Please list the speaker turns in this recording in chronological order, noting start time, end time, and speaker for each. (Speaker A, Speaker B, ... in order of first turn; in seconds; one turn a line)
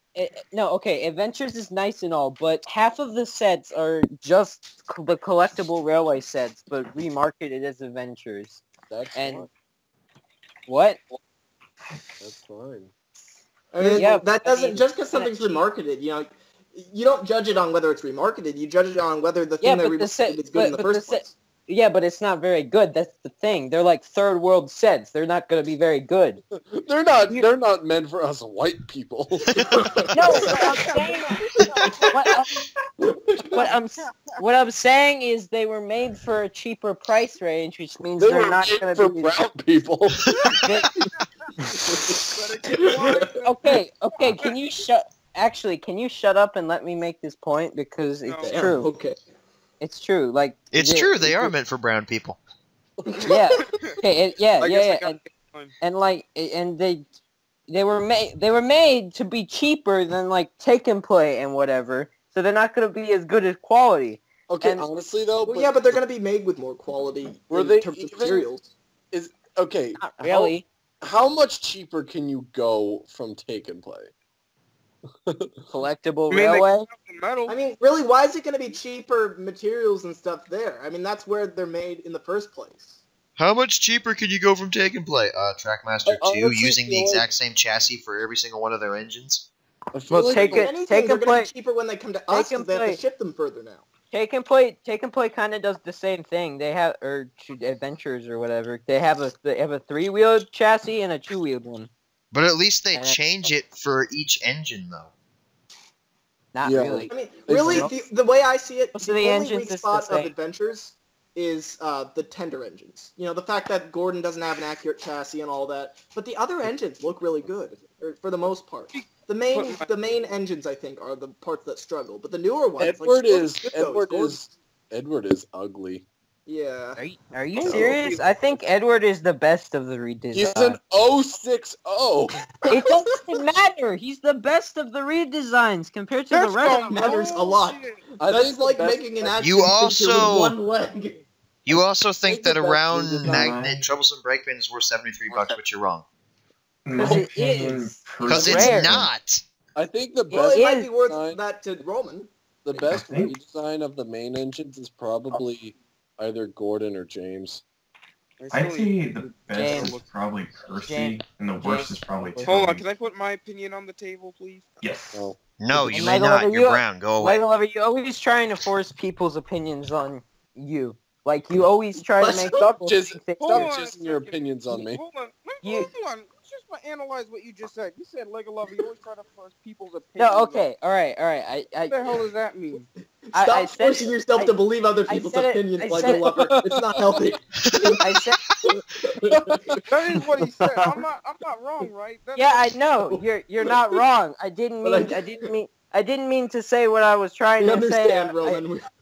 Speaker A: 0.1-8.6
Speaker B: 8.9-9.5
Speaker A: 9.1-9.5
Speaker A: 10.7-11.0
Speaker B: 12.2-12.9
Speaker C: 13.7-21.3
Speaker B: 13.8-14.1
Speaker A: 13.9-15.7
Speaker A: 19.6-26.4
Speaker B: 26.5-29.7
Speaker C: 29.5-32.0
Speaker A: 30.1-31.4
Speaker B: 30.3-30.6
Speaker D: 30.4-31.9
Speaker A: 32.1-32.5
Speaker C: 33.0-33.7
Speaker A: 33.5-39.4
Speaker B: 38.2-40.3
Speaker B: 41.9-42.3
Speaker D: 42.4-44.5
Speaker C: 42.7-43.3
Speaker A: 43.4-48.9
Speaker D: 48.2-48.6
Speaker C: 48.4-49.2
Speaker A: 49.8-51.5
Speaker E: 50.7-52.4
Speaker C: 53.1-53.6
Speaker A: 53.2-55.2
Speaker D: 53.6-54.0
Speaker D: 54.6-55.7
Speaker A: 55.8-57.1
Speaker A: 57.7-64.8
Speaker B: 64.5-66.0
Speaker C: 65.4-68.7
Speaker B: 67.5-68.5
Speaker B: 69.1-74.1
Speaker A: 70.0-70.7
Speaker B: 75.1-75.7
Speaker A: 75.7-76.9
Speaker D: 76.3-77.6
Speaker C: 77.5-83.0
Speaker E: 83.4-89.5
Speaker B: 86.0-87.3
Speaker B: 89.9-90.7
Speaker A: 90.1-91.5
Speaker C: 90.4-93.9
Speaker A: 92.3-93.0
Speaker A: 94.1-101.9
Speaker E: 102.3-105.1
Speaker A: 106.5-107.1
Speaker B: 106.6-107.9
Speaker C: 107.1-124.4
Speaker A: 107.7-108.0
Speaker A: 109.0-110.3
Speaker D: 118.9-120.2
Speaker B: 122.8-126.0
Speaker C: 126.5-127.0
Speaker A: 127.0-130.8
Speaker D: 127.6-128.2
Speaker B: 127.6-128.0
Speaker B: 130.3-132.8
Speaker A: 132.7-137.1
Speaker D: 136.3-138.0
Speaker C: 136.9-141.2
Speaker B: 138.2-139.7
Speaker E: 139.4-140.6
Speaker E: 141.7-146.1
Speaker B: 141.7-143.6
Speaker F: 143.2-143.9
Speaker F: 145.3-145.6
Speaker F: 146.8-149.1
Speaker A: 146.9-148.9
Speaker E: 148.2-149.4
Speaker B: 149.8-151.4
Speaker A: 150.3-150.9
Speaker C: 150.3-152.3
Speaker B: 152.7-157.6
Speaker F: 152.7-153.3
Speaker D: 158.4-160.1
Speaker F: 158.5-162.8
Speaker A: 159.6-160.0
Speaker A: 160.9-162.6
Speaker D: 162.4-164.7
Speaker F: 164.8-165.3
Speaker B: 165.1-166.0
Speaker E: 165.6-167.4
Speaker A: 165.9-173.7
Speaker C: 172.2-172.7
Speaker B: 172.8-175.0
Speaker D: 173.4-180.7
Speaker A: 175.6-175.9
Speaker A: 180.2-182.0
Speaker D: 181.9-182.9
Speaker A: 183.3-184.6
Speaker C: 183.3-188.0
Speaker A: 185.1-186.3
Speaker B: 186.0-187.3
Speaker E: 187.7-188.0
Speaker A: 188.0-188.4
Speaker C: 189.0-189.5
Speaker B: 189.3-189.8
Speaker D: 189.9-192.7
Speaker A: 192.3-198.6
Speaker C: 194.8-195.5
Speaker C: 197.6-198.9